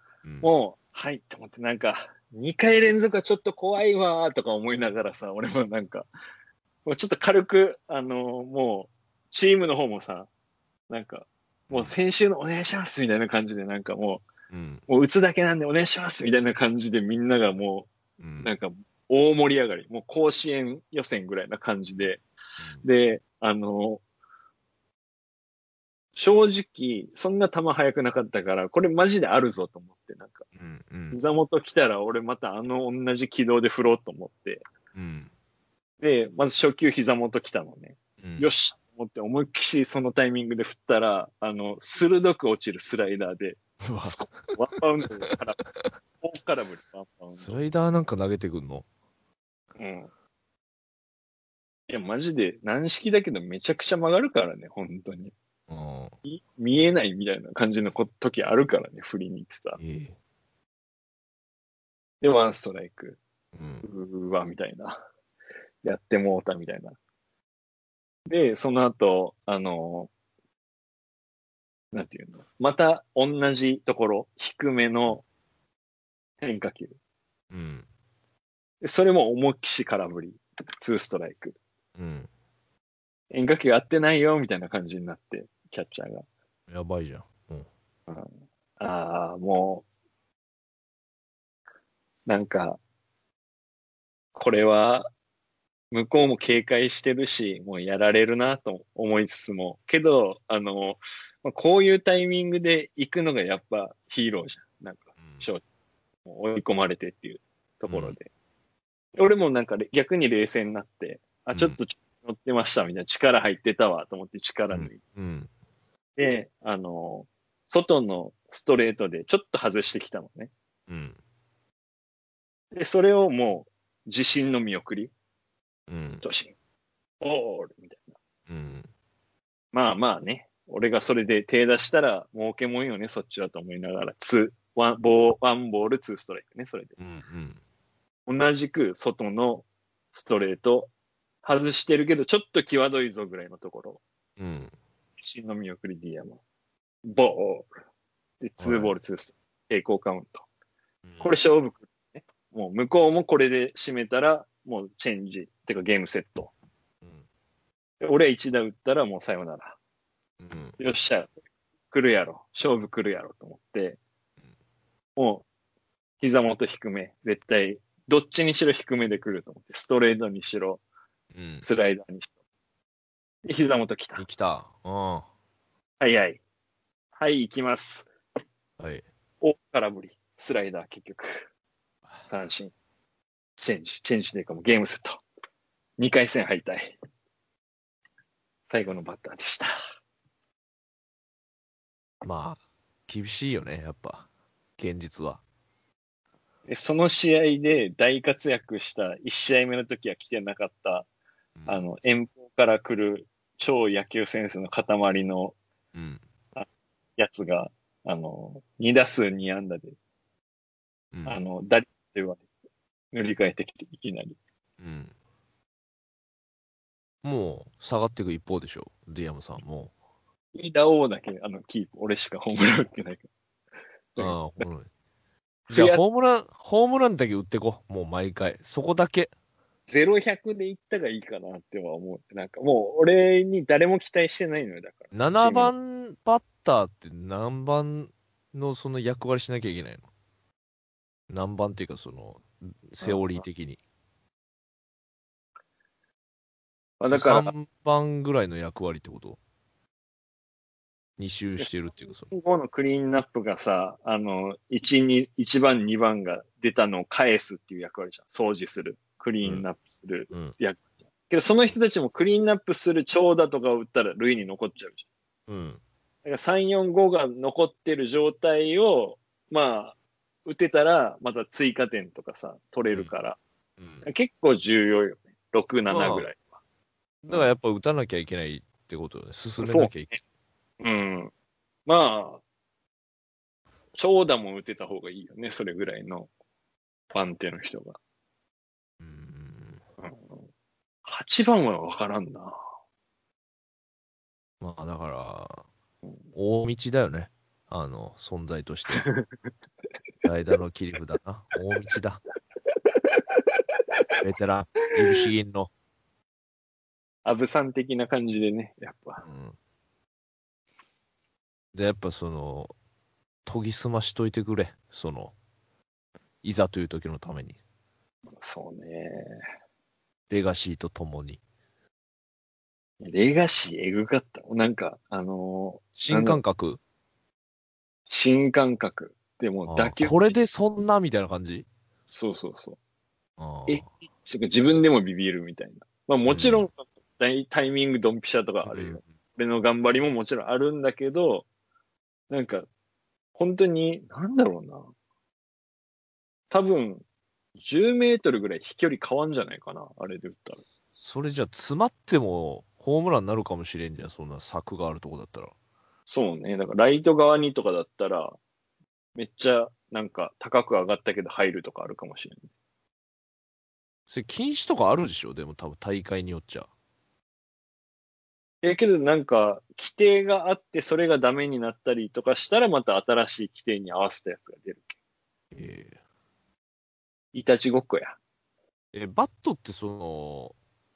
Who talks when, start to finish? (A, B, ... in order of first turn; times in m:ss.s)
0:00.4-0:06.1 A
0:06.8-0:10.3 A
0:10.9-0:14.2 A
0:11.7-0:11.9 B
0:14.5-0:14.8 B
0:14.9-0:22.2 A
0:18.2-0:18.5 B
0:22.8-0:24.0 A
0:26.1-0:30.4 A
0:30.5-0:31.2 B
0:31.1-0:34.6 A
0:34.9-0:35.3 B
0:36.0-0:45.6 A
0:38.2-0:38.5 B
0:43.8-0:44.5 B
0:45.3-0:45.9 B
0:46.2-0:47.6 A
0:47.4-0:48.8 B
0:49.8-0:50.1 A
0:51.9-0:55.3 A
0:55.7-0:56.1 B
0:56.2-0:59.8 A
0:59.8-1:00.1 B
1:02.2-1:03.2 A
1:03.5-1:03.8 B
1:03.8-1:05.0 A
1:05.8-1:07.0 A
1:08.3-1:10.1 A
1:11.9-1:15.2 A
1:16.4-1:17.0 A
1:17.5-1:17.8 B
1:18.8-1:21.6 A
1:22.0-1:22.3 B
1:23.3-1:26.2 A
1:26.7-1:27.7 B
1:28.1-1:29.8 A
1:32.2-1:32.8 A
1:34.3-1:35.1 A
1:35.9-1:45.6 A
1:45.2-1:45.4 B
1:46.2-1:48.3 A
1:47.9-1:48.2 B
1:49.1-1:55.0 A
1:51.5-1:51.8 B
1:54.7-1:55.5 B
1:56.2-2:00.5 A
2:00.9-2:01.2 B
2:02.7-2:05.1 A
2:05.9-2:06.2 B
2:06.2-2:06.5 A
2:07.2-2:08.2 A
2:08.5-2:08.9 B
2:09.7-2:17.0 A
2:17.0-2:17.6 B
2:18.3-2:20.9 A
2:21.4-2:24.0 A
2:24.4-2:24.7 B
2:25.2-2:26.4 A
2:27.0-2:27.7 A
2:28.4-2:30.4 A
2:28.6-2:28.9 B
2:31.0-2:31.3 B
2:31.2-2:36.5 A
2:38.0-2:39.8 A
2:40.4-2:40.8 B
2:40.8-2:41.4 A
2:41.9-2:44.0 A
2:45.2-2:45.4 A
2:46.2-2:50.8 A
2:51.3-2:51.6 B
2:51.6-2:52.3 A
2:53.4-2:54.2 A
2:54.2-2:55.2 B
2:56.0-2:56.4 A
2:57.2-2:58.1 A
2:58.8-2:59.0 B
2:59.4-3:01.4 A
3:02.3-3:02.7 A
3:03.6-3:05.2 A
3:06.0-3:06.9 A
3:08.7-3:09.7 A
3:12.2-3:14.3 B
3:14.8-3:15.4 B
3:16.7-3:21.1 A
3:21.6-3:21.8 B
3:21.7-3:25.6 A
3:25.9-3:26.2 B
3:26.5-3:30.0 A
3:31.1-3:31.4 B
3:31.2-3:32.4 A
3:33.1-3:34.4 A
3:34.8-3:35.1 B
3:37.2-3:39.9 B
3:40.5-3:43.3 A
3:44.1-3:44.6 A
3:44.2-3:44.9 B
3:45.7-3:49.3 B
3:45.7-3:46.0 A
3:49.9-3:55.7 A
3:55.1-4:00.0 B
4:01.3-4:03.8 B
4:03.0-4:03.4 A
4:07.0-4:07.5 A
4:07.1-4:09.4 B
4:11.2-4:12.3 B
4:12.3-4:25.0 A
4:20.3-4:20.6 B
4:25.5-4:25.8 B
4:26.2-4:33.4 A
4:33.8-4:34.0 B
4:34.0-4:36.4 A
4:35.9-4:36.3 B
4:37.2-4:40.1 B
4:39.6-4:40.1 A
4:40.8-4:41.3 A
4:41.9-4:42.4 A
4:44.0-4:46.3 A
4:47.1-4:48.0 A
4:49.0-4:49.8 B
4:50.0-4:50.4 A
4:51.0-4:52.6 A
4:54.6-4:55.6 B
4:56.3-4:59.0 B
5:00.2-5:02.2 B
5:04.2-5:05.7 B
5:07.2-5:09.2 A
5:09.2-5:09.5 B
5:11.7-5:12.7 B
5:13.4-5:15.3 B
5:16.4-5:17.6 B
5:18.3-5:19.4 A
5:20.3-5:21.4 B
5:23.0-5:26.4 A
5:26.0-5:26.8 B
5:28.1-5:30.4 A
5:29.7-5:31.7 B
5:32.1-5:32.8 A
5:33.4-5:33.9 B
5:33.7-5:41.4 A
5:36.3-5:36.7 B
5:38.6-5:39.0 B
5:42.3-5:42.7 A
5:43.3-5:44.8 A
5:46.5-5:47.0 A
5:47.6-5:50.6 A
5:51.0-5:55.5 B
5:56.1-5:58.4 A
5:59.2-6:02.5 A
6:04.1-6:06.7 B
6:08.6-6:14.9 A
6:15.5-6:16.0 B
6:17.3-6:18.2 A
6:18.9-6:20.5 B